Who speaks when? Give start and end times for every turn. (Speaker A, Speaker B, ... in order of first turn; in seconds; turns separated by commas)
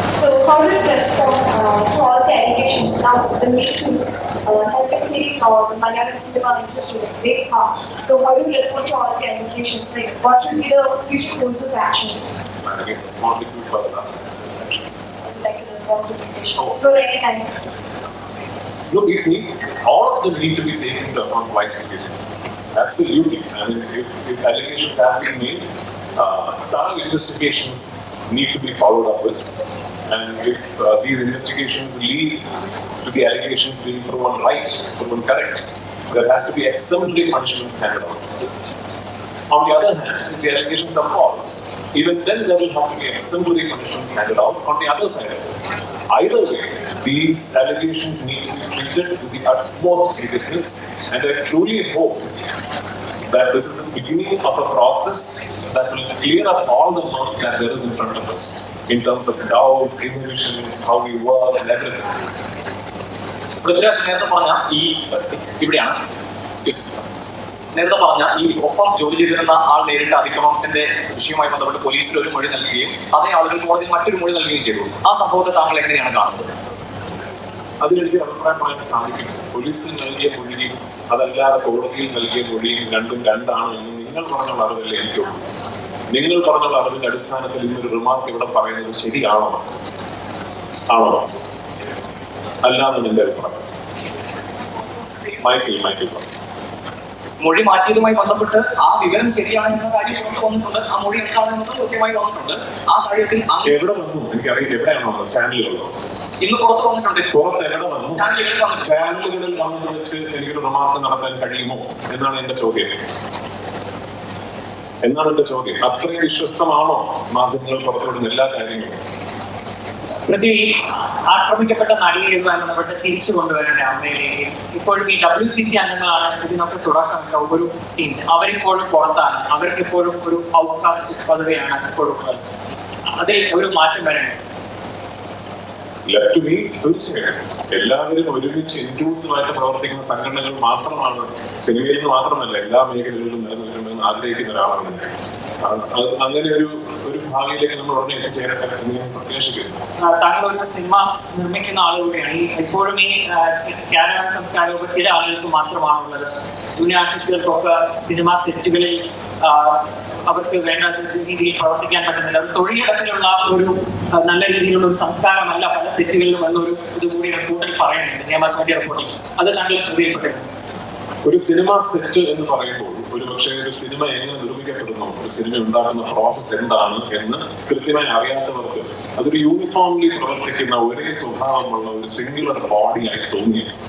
Speaker A: 0.1-12.2, Speaker B: 12.6-14.9, Speaker A: 15.2-17.5, Speaker B: 18.9-22.2, Speaker B: 22.8-29.4, Speaker B: 30.1-32.4, Speaker B: 33.0-38.4, Speaker B: 39.5-45.6, Speaker B: 46.1-52.2, Speaker B: 53.3-62.1, Speaker C: 63.6-66.0, Speaker C: 66.6-66.8, Speaker C: 67.8-76.5, Speaker B: 77.8-85.4, Speaker B: 86.1-89.7, Speaker B: 90.9-91.3, Speaker B: 92.7-93.7, Speaker B: 95.4-96.3, Speaker C: 97.4-103.7, Speaker B: 103.7-105.9, Speaker C: 106.4-107.3, Speaker B: 107.3-108.3, Speaker C: 108.1-109.2, Speaker B: 108.8-112.9, Speaker B: 115.0-119.0, Speaker D: 120.3-120.8, Speaker D: 121.3-132.4, Speaker D: 133.1-134.4, Speaker B: 136.1-145.1, Speaker B: 145.6-149.8, Speaker D: 150.1-170.5, Speaker B: 171.2-183.7